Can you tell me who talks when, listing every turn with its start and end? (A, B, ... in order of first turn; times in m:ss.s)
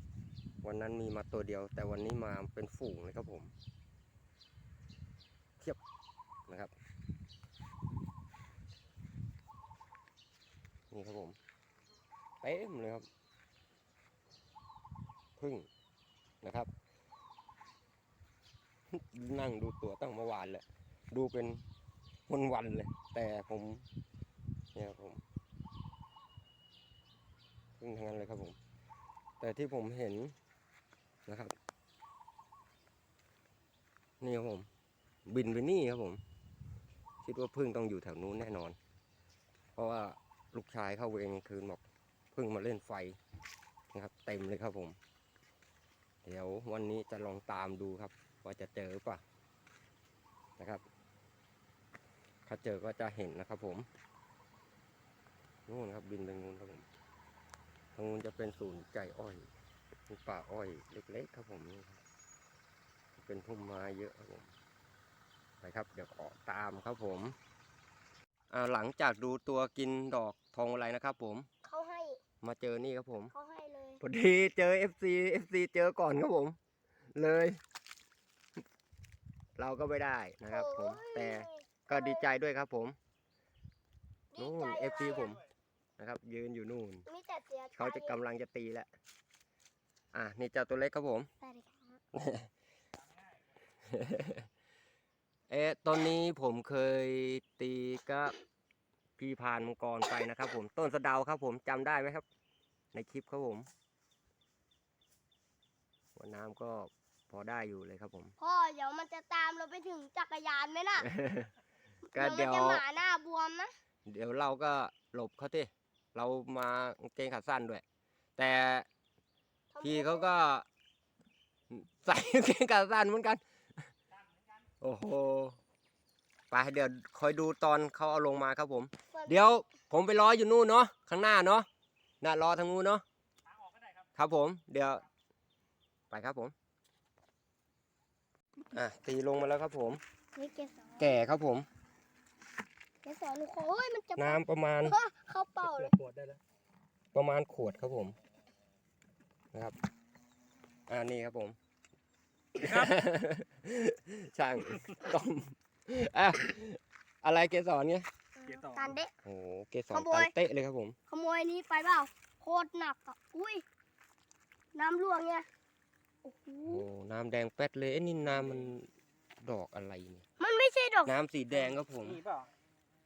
0:00.6-0:03.5 A
0:10.9-0:11.4 A
0:12.4-0:13.1 A
0:15.4-0:15.7 A
0:16.4-0:16.7 A
0:18.9-0:21.6 A
0:22.3-0:23.8 A
0:24.8-0:25.2 A
0:27.8-0:28.6 A
0:29.4-0:30.3 A
0:31.3-0:31.5 A
0:34.2-0:34.7 A
0:35.3-0:36.2 A
0:37.2-0:38.8 A
0:39.8-0:41.8 A
0:42.3-0:43.2 A
0:43.9-0:45.0 A
0:46.2-0:49.2 A
0:50.6-0:50.8 A
0:52.5-0:53.9 A
0:55.7-0:56.8 A
0:58.0-0:59.5 A
1:00.1-1:02.0 A
1:03.2-1:04.5 A
1:05.6-1:07.4 A
1:08.5-1:11.5 A
1:11.6-1:12.2 B
1:12.4-1:13.3 A
1:13.3-1:14.0 B
1:14.0-1:16.6 A
1:17.2-1:17.6 A
1:19.6-1:23.0 A
1:20.5-1:22.3 B
1:24.3-1:25.4 B
1:24.4-1:25.4 A
1:26.0-1:27.0 A
1:27.1-1:28.2 B
1:27.8-1:28.9 A
1:30.1-1:31.3 A
1:31.4-1:32.0 B
1:32.1-1:32.5 A
1:33.9-1:34.5 A
1:35.5-1:38.4 A
1:39.2-1:42.2 A
1:42.9-1:43.7 A
1:46.2-1:48.3 A
1:48.4-1:51.1 B
1:51.0-1:51.5 A
1:52.1-1:53.7 B
1:52.1-1:52.8 A
1:54.1-1:57.8 A
1:58.4-1:58.9 A
1:59.7-2:00.4 B
1:59.8-2:00.6 A
2:01.7-2:03.9 A
2:04.2-2:04.5 C
2:04.8-2:05.6 A
2:06.5-2:11.7 A
2:09.1-2:09.4 B
2:12.2-2:13.0 A
2:13.5-2:14.1 C
2:14.2-2:15.1 A
2:16.1-2:16.5 A
2:18.7-2:20.0 A
2:20.4-2:21.1 B
2:21.0-2:21.7 A
2:23.0-2:26.0 B
2:24.2-2:25.0 A
2:25.6-2:26.4 C
2:27.1-2:28.2 A
2:30.9-2:31.6 A
2:32.6-2:32.9 C
2:32.6-2:38.1 A
2:38.4-2:39.1 B
2:38.4-2:39.0 C
2:39.2-2:41.0 A
2:39.9-2:40.3 B
2:41.1-2:43.6 B
2:44.7-2:45.5 B
2:46.2-2:46.9 B
2:46.7-2:48.9 A
2:48.3-2:48.7 C
2:49.4-2:50.2 A
2:50.4-2:51.1 B
2:51.1-2:52.2 A
2:51.5-2:52.5 C